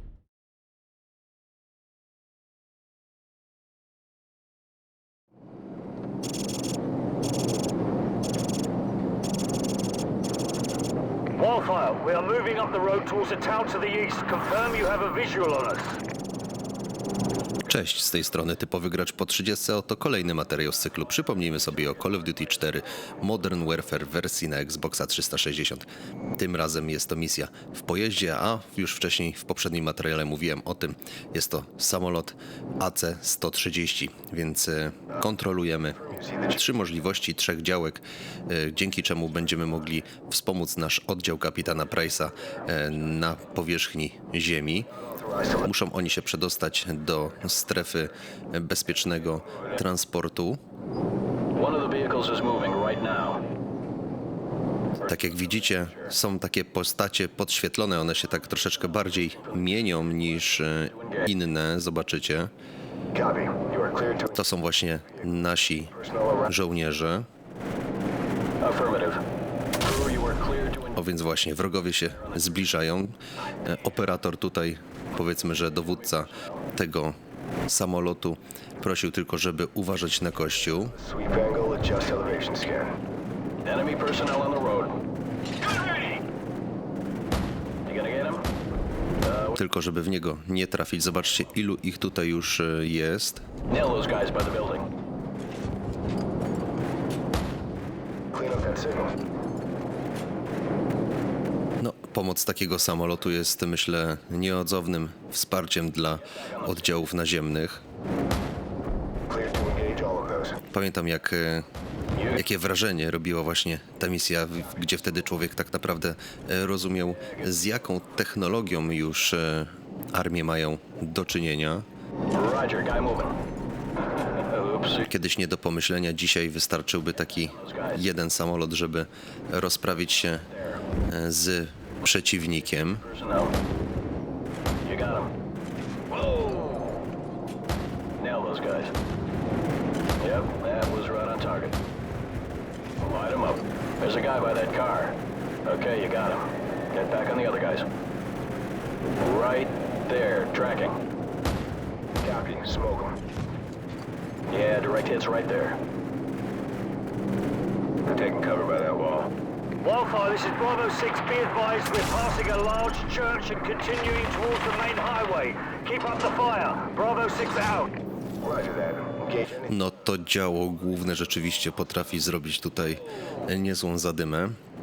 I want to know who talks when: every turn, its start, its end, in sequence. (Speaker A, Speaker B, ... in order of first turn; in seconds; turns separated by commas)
Speaker A: 11.3-16.0, Speaker B: 17.7-44.9, Speaker C: 36.1-36.6, Speaker C: 45.0-45.7, Speaker B: 45.6-50.6, Speaker D: 51.5-53.4, Speaker B: 55.0-62.5, Speaker D: 59.1-61.3, Speaker C: 63.1-64.5, Speaker B: 64.3-65.9, Speaker C: 65.9-66.5, Speaker B: 66.5-67.3, Speaker D: 68.6-69.2, Speaker D: 69.8-71.0, Speaker B: 70.9-77.2, Speaker D: 76.0-76.6, Speaker B: 77.7-80.9, Speaker C: 80.9-82.9, Speaker D: 83.6-85.0, Speaker D: 87.8-88.5, Speaker D: 89.2-89.6, Speaker B: 89.5-93.4, Speaker D: 93.7-94.9, Speaker C: 98.3-99.2, Speaker B: 101.8-107.8, Speaker D: 106.3-106.8, Speaker C: 109.3-110.6, Speaker B: 110.7-111.7, Speaker D: 112.1-112.4, Speaker B: 112.3-121.8, Speaker D: 122.3-123.3, Speaker D: 124.2-125.1, Speaker B: 125.1-130.5, Speaker D: 127.4-128.0, Speaker B: 131.1-133.0, Speaker D: 132.9-133.6, Speaker D: 134.8-135.3, Speaker D: 136.1-137.0, Speaker D: 138.2-138.9, Speaker D: 140.2-141.8, Speaker D: 143.0-147.9, Speaker D: 149.2-151.0, Speaker C: 152.2-153.2, Speaker D: 154.5-155.8, Speaker C: 158.1-159.3, Speaker A: 159.8-167.9, Speaker C: 168.4-169.7, Speaker B: 169.7-174.6